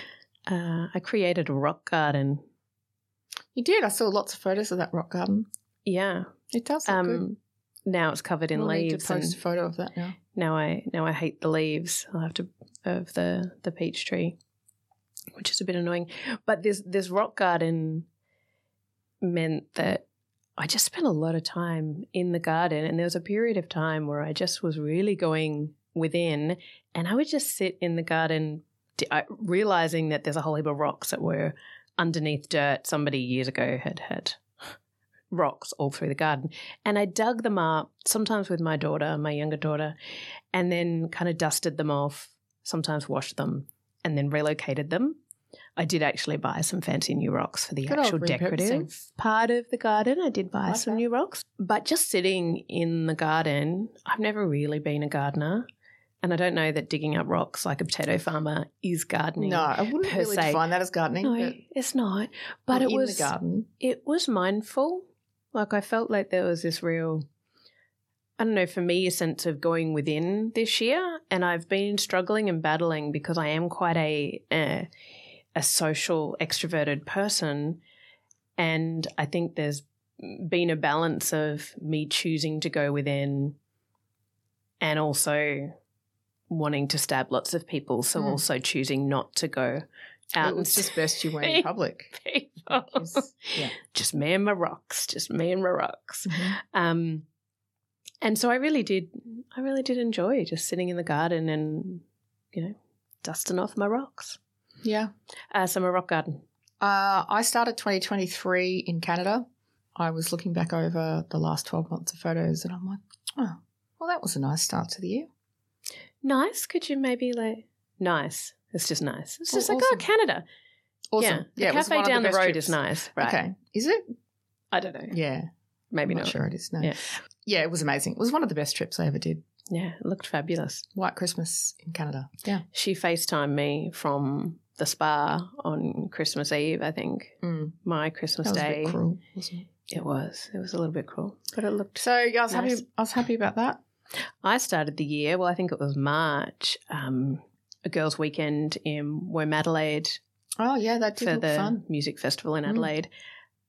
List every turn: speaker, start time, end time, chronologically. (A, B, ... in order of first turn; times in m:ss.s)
0:00.5-0:02.4 A
0:03.5-0:05.5 B
0:05.9-0:06.3 A
0:06.5-0:07.2 B
0:06.9-0:09.4 A
0:08.6-0:10.2 B
0:10.3-0:14.4 A
0:15.4-0:18.1 A
0:19.2-0:20.0 A
0:20.6-0:34.4 A
0:35.3-0:40.0 A
0:40.5-0:45.2 A
0:45.8-0:55.7 A
0:47.9-0:49.0 B
0:50.7-0:51.0 B
0:56.2-1:00.6 A
0:59.4-1:01.6 B
1:01.2-1:07.3 A
1:02.7-1:03.7 B
1:08.4-1:14.9 A
1:15.6-1:17.8 A
1:18.6-1:23.6 A
1:24.8-1:25.8 A
1:26.5-1:37.3 A
1:28.2-1:28.4 B
1:30.4-1:32.1 B
1:32.7-1:33.7 B
1:36.3-1:36.6 B
1:38.2-1:44.4 A
1:44.8-1:45.1 B
1:45.5-1:46.4 A
1:46.8-1:55.3 B
1:56.2-2:00.4 A
1:59.5-2:00.1 B
2:01.1-2:04.0 B
2:01.2-2:03.4 A
2:04.7-2:05.2 A
2:05.1-2:05.5 B
2:05.9-2:07.0 A
2:06.1-2:09.4 B
2:09.7-2:10.9 A
2:11.0-2:12.6 B
2:12.7-2:19.0 A
2:17.4-2:17.8 B
2:18.4-2:19.7 B
2:19.9-2:22.8 A
2:22.0-2:23.8 B
2:24.4-2:30.2 A
2:30.6-2:31.8 B
2:31.2-2:33.1 A
2:32.7-2:32.9 B